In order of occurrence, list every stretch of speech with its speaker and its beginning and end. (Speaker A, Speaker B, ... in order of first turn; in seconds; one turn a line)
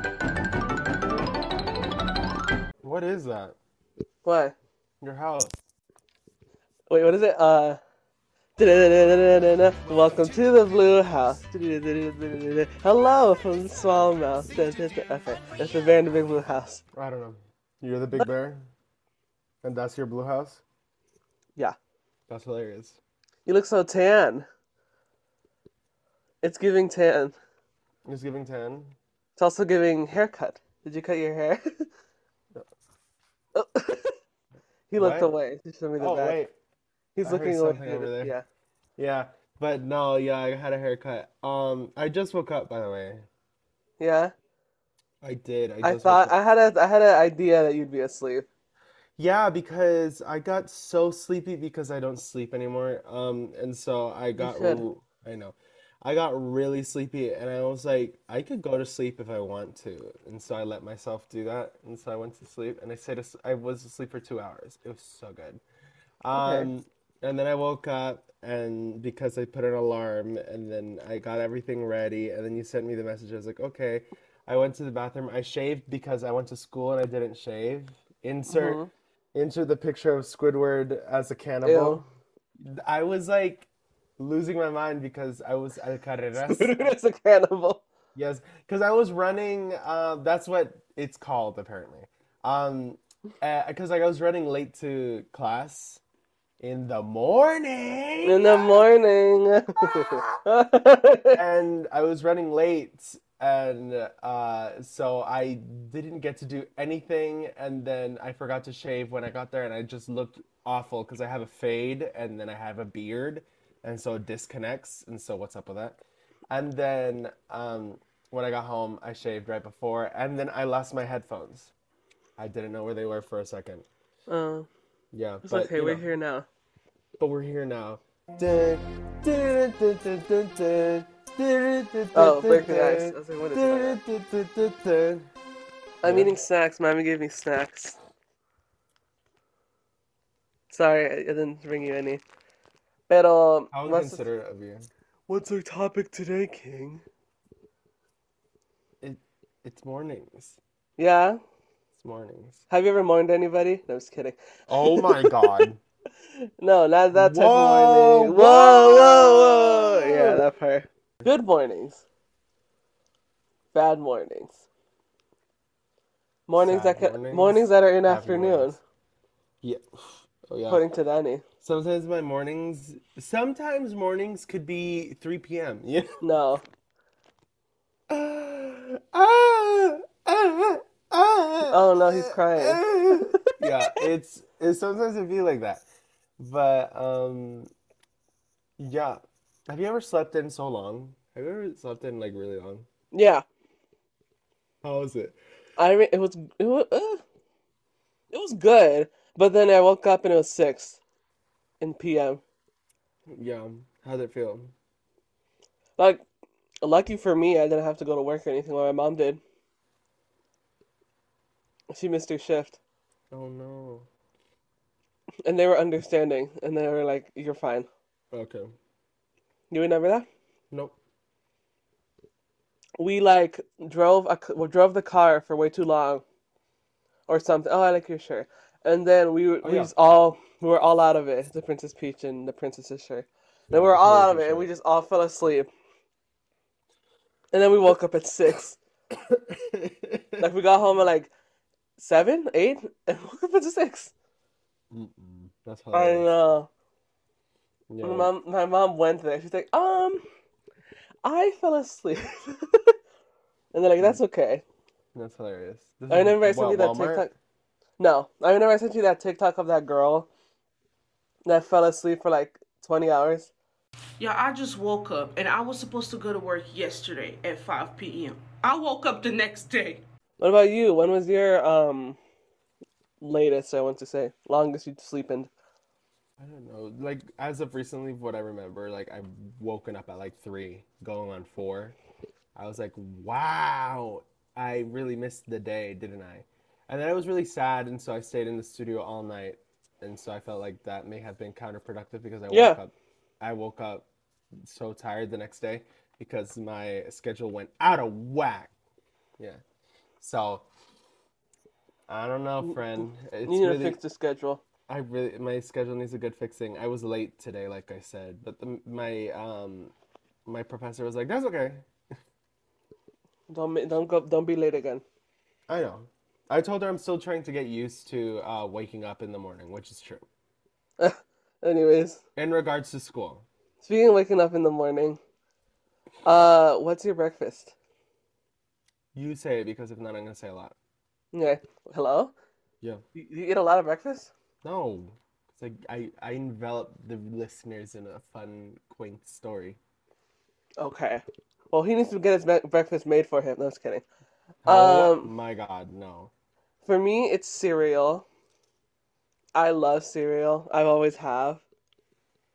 Speaker A: 2.8-3.6
Speaker B: 4.2-4.6
Speaker A: 5.0-5.5
Speaker B: 6.9-7.8
Speaker B: 8.6-16.8
Speaker A: 16.9-18.7
Speaker A: 19.6-20.6
Speaker A: 22.3-23.0
Speaker B: 23.5-24.5
Speaker B: 26.4-27.4
Speaker A: 28.1-29.0
Speaker B: 29.4-31.9
Speaker B: 33.5-34.2
Speaker B: 34.9-36.4
Speaker A: 35.0-35.3
Speaker A: 36.0-36.5
Speaker B: 37.2-38.5
Speaker A: 37.2-38.3
Speaker A: 39.0-43.3
Speaker B: 44.0-44.3
Speaker A: 45.2-46.4
Speaker B: 45.8-48.5
Speaker A: 49.2-65.6
Speaker B: 54.4-54.9
Speaker A: 66.2-78.8
Speaker B: 66.3-66.7
Speaker B: 78.5-78.9
Speaker A: 79.3-82.0
Speaker B: 81.7-82.0
Speaker A: 82.6-86.9
Speaker B: 86.4-87.8
Speaker A: 88.2-96.0
Speaker A: 96.6-98.8
Speaker B: 98.2-101.4
Speaker A: 99.8-100.4
Speaker A: 101.3-121.7
Speaker A: 122.4-123.9
Speaker B: 124.3-124.7
Speaker A: 125.1-126.1
Speaker B: 125.5-126.5
Speaker A: 127.2-135.3
Speaker B: 132.1-134.0
Speaker B: 136.0-138.0
Speaker A: 136.0-136.3
Speaker B: 140.7-142.2
Speaker B: 143.1-144.2
Speaker A: 143.7-144.9
Speaker B: 145.3-147.0
Speaker A: 149.0-150.6
Speaker B: 151.0-151.4
Speaker A: 152.0-152.6
Speaker B: 152.7-155.7
Speaker A: 154.7-155.8
Speaker B: 156.4-162.0
Speaker A: 157.1-160.4
Speaker B: 163.7-164.6
Speaker B: 166.5-168.8
Speaker A: 166.6-168.8
Speaker A: 169.6-170.8
Speaker B: 170.7-171.4
Speaker A: 171.6-176.2
Speaker B: 176.2-176.6
Speaker A: 178.1-185.8
Speaker B: 181.7-184.0
Speaker A: 186.4-187.7
Speaker A: 188.8-192.9
Speaker B: 193.1-193.4
Speaker A: 194.8-195.4
Speaker B: 195.8-197.2
Speaker B: 198.3-201.0
Speaker B: 201.8-202.4
Speaker A: 203.3-204.7
Speaker B: 206.0-206.2
Speaker B: 206.8-209.4
Speaker B: 211.9-212.8
Speaker A: 213.3-214.1
Speaker B: 215.4-217.9
Speaker A: 218.3-218.7
Speaker B: 219.7-220.3
Speaker B: 223.0-226.2
Speaker B: 227.3-235.7
Speaker A: 229.6-229.9
Speaker A: 233.7-234.7
Speaker B: 237.5-238.8
Speaker A: 239.1-240.5
Speaker B: 240.4-241.3
Speaker B: 242.0-244.1
Speaker A: 244.9-246.3
Speaker B: 245.9-246.7
Speaker A: 247.9-248.3
Speaker B: 248.0-250.2
Speaker B: 251.2-252.9
Speaker B: 253.7-254.6
Speaker A: 255.1-257.3
Speaker B: 256.1-257.3
Speaker B: 258.0-260.3
Speaker B: 261.5-263.5
Speaker C: 264.2-270.0
Speaker B: 270.4-272.2
Speaker B: 273.2-275.5
Speaker A: 276.4-282.0
Speaker A: 282.6-294.1
Speaker B: 292.5-292.8
Speaker A: 294.6-298.7
Speaker A: 300.2-300.7
Speaker A: 302.1-304.0
Speaker B: 303.4-304.6
Speaker A: 304.9-309.9
Speaker A: 310.5-311.9
Speaker B: 313.5-315.0
Speaker A: 315.7-320.3
Speaker B: 321.0-322.2
Speaker A: 322.4-323.5
Speaker B: 323.8-325.2
Speaker B: 326.2-327.7
Speaker A: 329.1-330.8
Speaker B: 331.3-332.3
Speaker B: 333.1-334.3
Speaker A: 334.6-339.8
Speaker B: 340.8-344.0
Speaker A: 344.6-346.3
Speaker B: 344.7-345.3
Speaker B: 346.8-348.3
Speaker B: 349.6-351.6